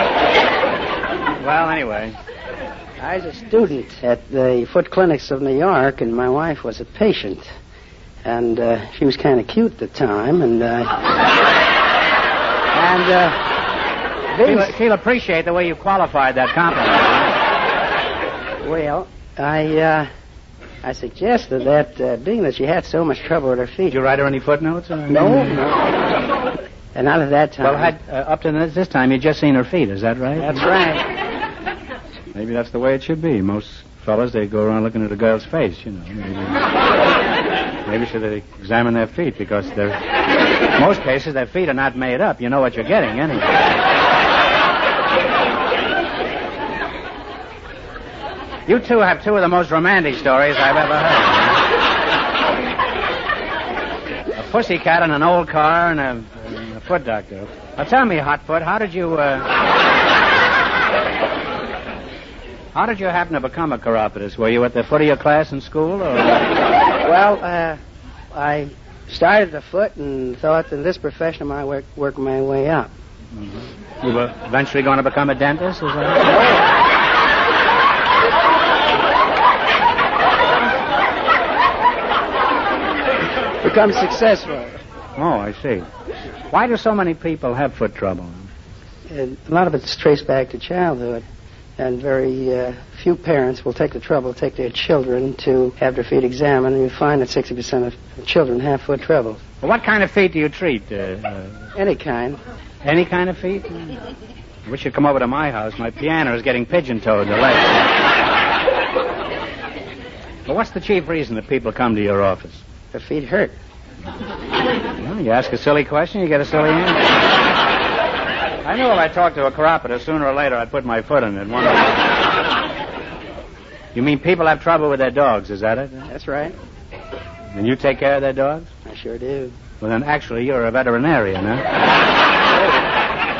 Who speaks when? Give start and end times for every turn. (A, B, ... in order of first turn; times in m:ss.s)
0:01.4-0:02.1 A
0:03.0-0:07.5 B
0:08.2-0:11.0 B
0:12.8-0:13.4 A
0:14.3-0:14.7 B
0:14.4-0:17.4 A
0:18.6-0:20.1 B
0:20.8-0:24.0 B
0:23.9-0:25.6 A
0:25.1-0:25.8 B
0:26.9-0:27.9 B
0:27.6-0:30.6 A
0:30.4-0:31.0 B
0:32.3-0:36.6 A
0:37.8-0:40.0 A
0:40.7-0:43.7 A
0:48.6-0:51.6 A
0:54.3-0:59.5 A
1:02.7-1:06.4 A
1:07.0-1:07.8 B
1:08.3-1:12.9 B
1:13.4-1:16.3 A
1:23.6-1:24.8 B
1:25.2-1:25.8 A
1:26.5-1:28.5 A
1:29.1-1:31.2 B
1:31.8-1:39.4 B
1:39.6-1:41.6 A
1:41.7-1:42.4 B
1:42.8-1:43.9 A
1:44.6-1:47.8 A
1:50.4-1:52.6 A
1:52.9-1:53.6 B
1:55.0-1:57.2 A
1:58.6-2:02.0 A
2:03.9-2:06.1 A
2:06.1-2:06.5 B
2:07.5-2:08.7 A
2:08.8-2:09.6 B
2:09.8-2:11.7 A
2:12.5-2:12.8 B